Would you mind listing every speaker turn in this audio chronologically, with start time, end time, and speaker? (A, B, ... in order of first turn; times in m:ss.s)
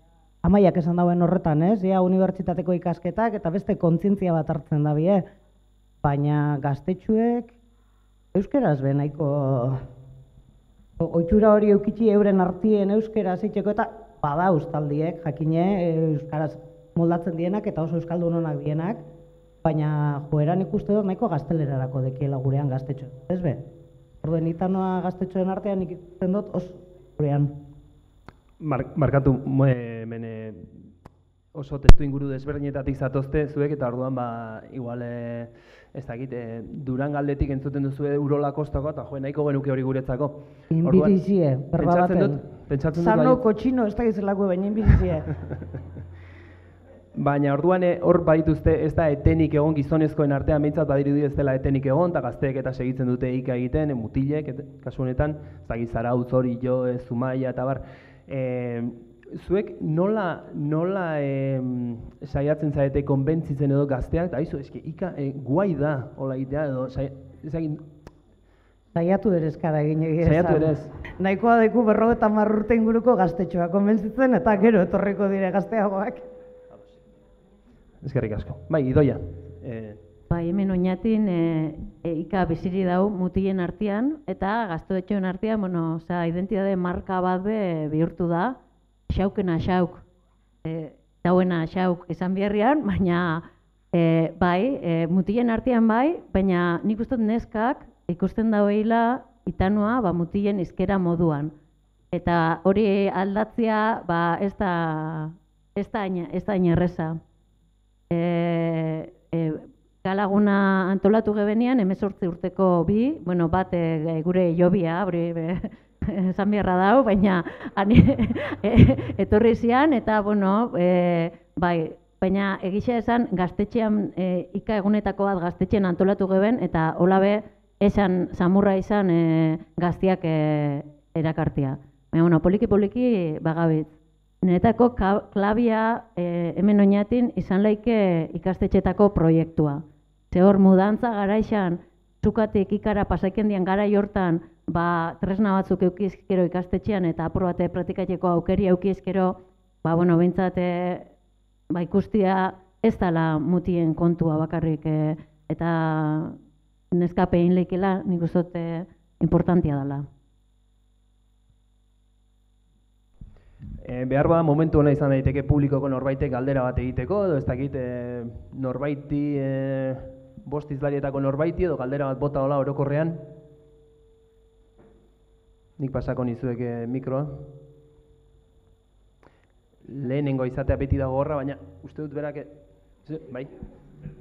0:00.4-0:05.2 A
0:06.0-0:07.5 A
0:08.3-0:09.8 A
0:11.0-0:19.0 A
0:19.6-0:23.6 A
0:24.2-0:27.6 A
0:28.6-0:30.9 B
0:31.5-0:41.2 B
0:40.7-0:45.3 A
0:41.8-0:43.4 B
0:47.1-1:07.8 B
1:08.9-1:16.2 A
1:10.2-1:11.0 B
1:18.0-1:20.0 B
1:20.3-1:28.6 C
1:29.1-1:30.0 C
1:30.6-1:41.5 C
1:42.1-1:47.2 C
1:48.1-2:31.1 C
2:31.7-2:36.4 C
2:36.9-2:40.1 C
2:43.8-2:53.3 B
2:55.8-2:57.5 B
2:59.8-3:03.5 B